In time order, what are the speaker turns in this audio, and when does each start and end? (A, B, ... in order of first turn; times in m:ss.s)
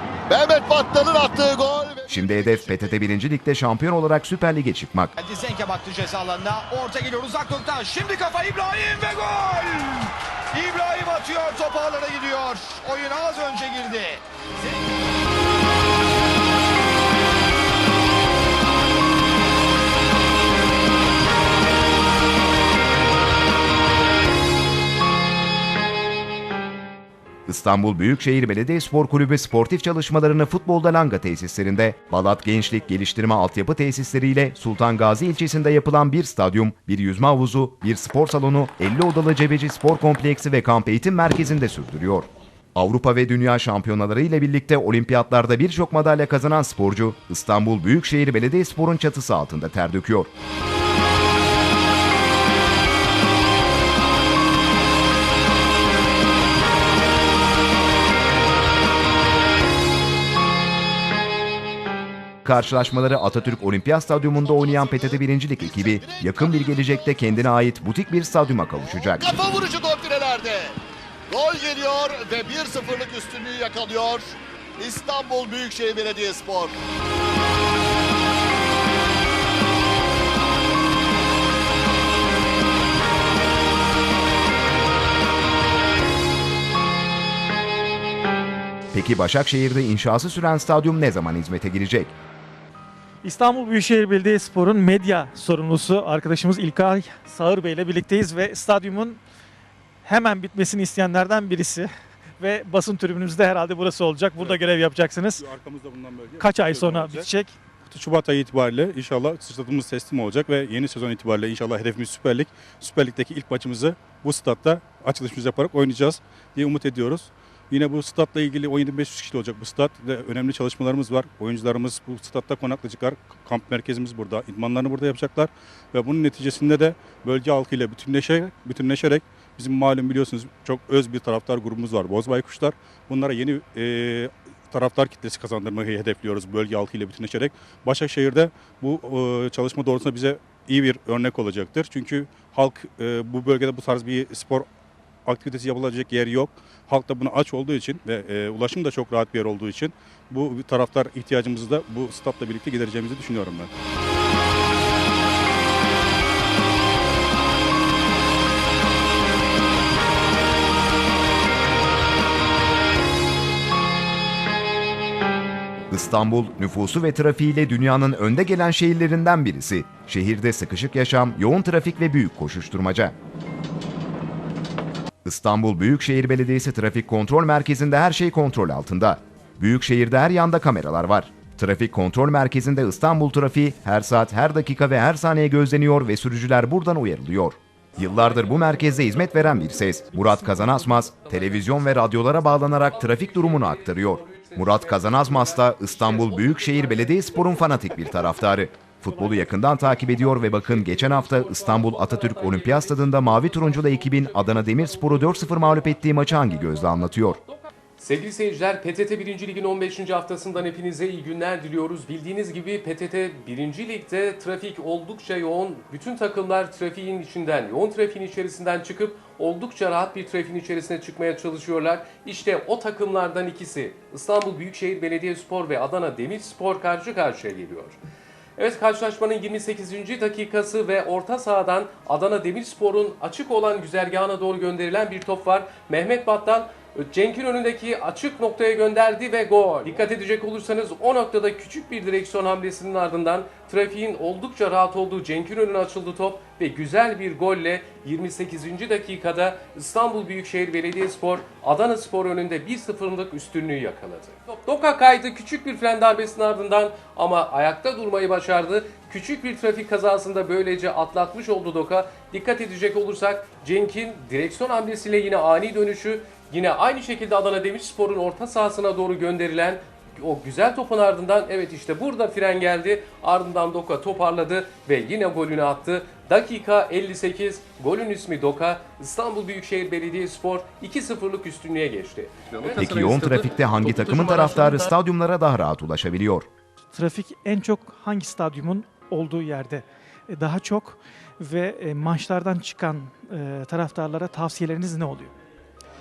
0:00.3-0:02.6 A
0:02.0-0:05.1 B
0:05.2-0:14.2 C
0:27.5-0:50.3 B
1:02.4-1:09.4 B
1:04.4-1:07.1 A
1:08.8-1:10.8 A
1:11.3-1:16.7 A
1:28.9-1:32.1 B
1:33.2-1:39.2 D
1:40.0-1:45.4 D
1:44.4-1:44.7 E
1:45.4-1:47.3 E
1:46.4-1:47.5 D
1:47.9-2:24.7 E
2:25.2-2:33.7 E
2:45.9-2:53.1 B
2:55.2-3:27.4 B
3:08.2-3:17.9 F
3:20.5-3:48.0 F
3:48.6-4:44.9 F
4:42.8-4:46.5 B
4:46.9-4:55.3 D